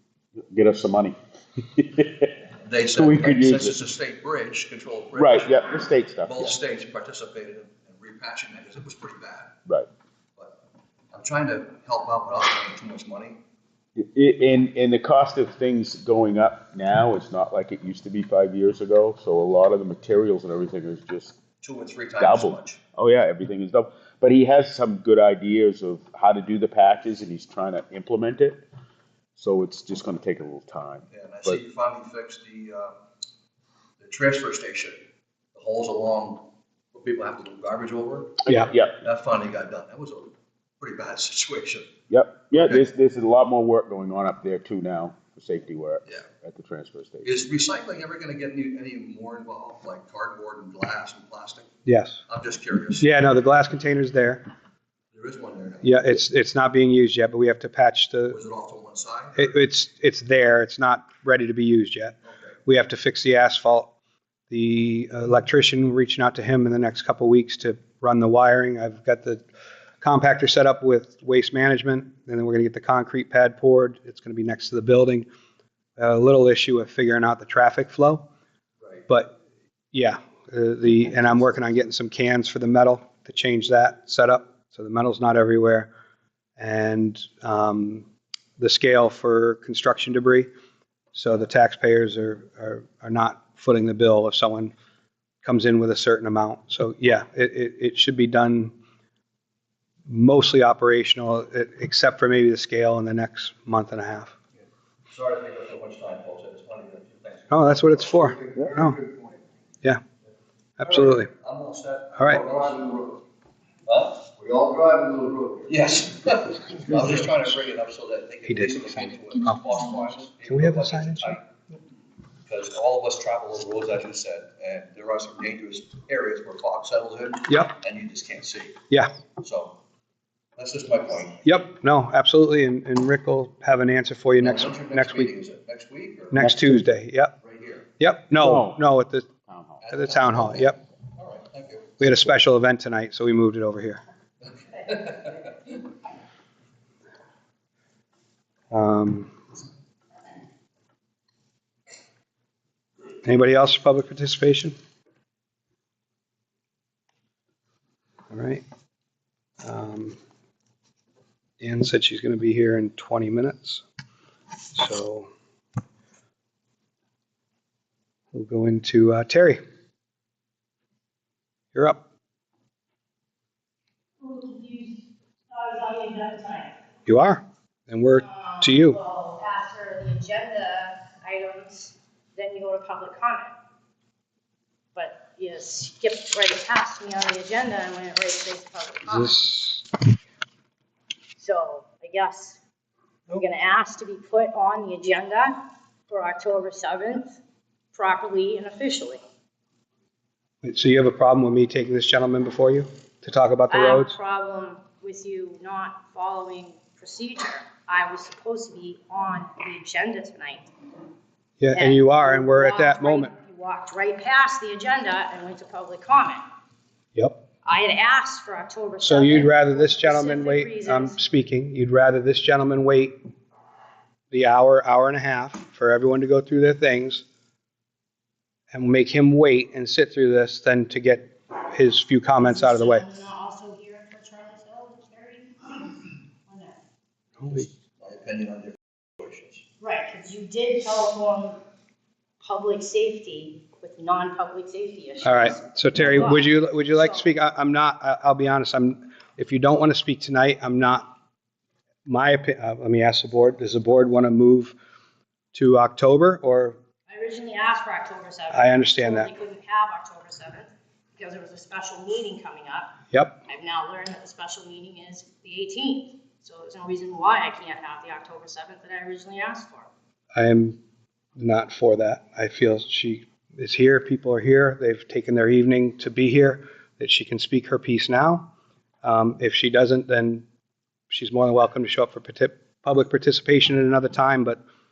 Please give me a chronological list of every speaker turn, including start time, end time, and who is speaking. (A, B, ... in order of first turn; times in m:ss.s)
0:00.4-0:01.2 A
0:01.8-0:02.3 A
0:02.6-0:09.5 B
0:02.9-0:03.8 A
0:05.1-0:06.5 A
0:11.1-0:13.4 B
0:14.0-0:21.4 A
0:21.6-0:22.8 B
0:22.2-0:28.6 A
0:29.4-0:31.6 A
0:31.1-0:33.0 B
0:34.0-0:35.0 B
0:35.5-0:38.5 B
0:38.4-0:38.7 C
0:38.5-0:39.0 A
0:39.0-0:41.9 B
0:42.1-0:47.4 A
0:42.5-0:42.9 B
0:47.2-0:51.7 B
0:51.8-0:52.2 C
0:52.3-0:53.1 B
0:53.0-0:54.4 C
0:55.1-0:55.9 B
0:55.8-0:58.4 C
0:58.3-0:59.4 B
0:59.4-1:03.9 C
1:02.2-1:02.5 B
1:04.5-1:09.4 C
1:10.0-1:15.3 C
1:16.0-1:18.3 C
1:19.1-1:19.4 C
1:19.9-1:25.9 C
1:26.6-1:28.1 C
1:28.6-1:30.5 C
1:31.1-1:34.7 C
1:35.4-1:38.7 C
1:40.1-1:44.3 C
1:45.1-1:48.2 B
1:47.5-1:49.0 C
1:48.3-1:49.4 D
1:50.8-1:51.3 C
1:50.8-1:53.2 B
1:52.2-1:52.4 C
1:53.9-1:54.3 B
1:54.3-1:55.6 D
1:55.6-2:01.5 B
1:58.5-1:59.6 C
2:00.4-2:01.4 C
2:02.4-2:08.8 B
2:07.5-2:07.7 C
2:09.4-2:09.8 B
2:10.6-2:11.4 B
2:11.4-2:15.3 C
2:14.4-2:16.4 B
2:16.3-2:17.3 C
2:16.4-2:16.8 A
2:17.4-2:17.9 B
2:18.0-2:19.3 C
2:18.4-2:18.8 A
2:19.4-2:19.8 A
2:19.8-2:22.0 B
2:19.9-2:20.8 C
2:22.0-2:24.0 C
2:24.4-2:25.7 B
2:28.7-2:29.3 C
2:33.2-2:34.7 C
2:38.3-2:38.6 C
2:39.6-2:40.2 C
2:41.6-2:43.8 C
2:44.7-2:45.3 C
2:48.3-2:49.6 C
2:51.7-2:52.0 C
2:54.2-2:56.7 E
2:57.0-2:59.0 C
2:58.2-3:03.5 E
3:04.9-3:09.4 E
3:09.1-3:09.8 C
3:11.4-3:12.6 E
3:13.3-3:15.5 E
3:16.1-3:17.4 E
3:17.9-3:19.2 E
3:20.6-3:24.1 C
3:23.7-3:30.7 E
3:31.6-3:33.3 C
3:31.7-3:36.4 E
3:37.1-3:37.4 C
3:37.6-3:41.2 E
3:39.0-3:43.2 C
3:44.3-3:47.2 C
3:48.7-3:53.0 C
3:52.4-3:56.8 E
3:57.4-3:57.7 C
3:58.0-3:59.6 B
3:59.8-4:01.6 E
4:02.4-4:07.2 E
4:05.2-4:11.1 C
4:12.0-4:14.8 C
4:15.5-4:16.8 C
4:17.1-4:29.9 E
4:18.5-4:19.3 C
4:23.1-4:23.4 C
4:30.4-4:30.8 C
4:31.4-4:38.5 C
4:39.0-4:40.4 C
4:41.1-4:44.6 C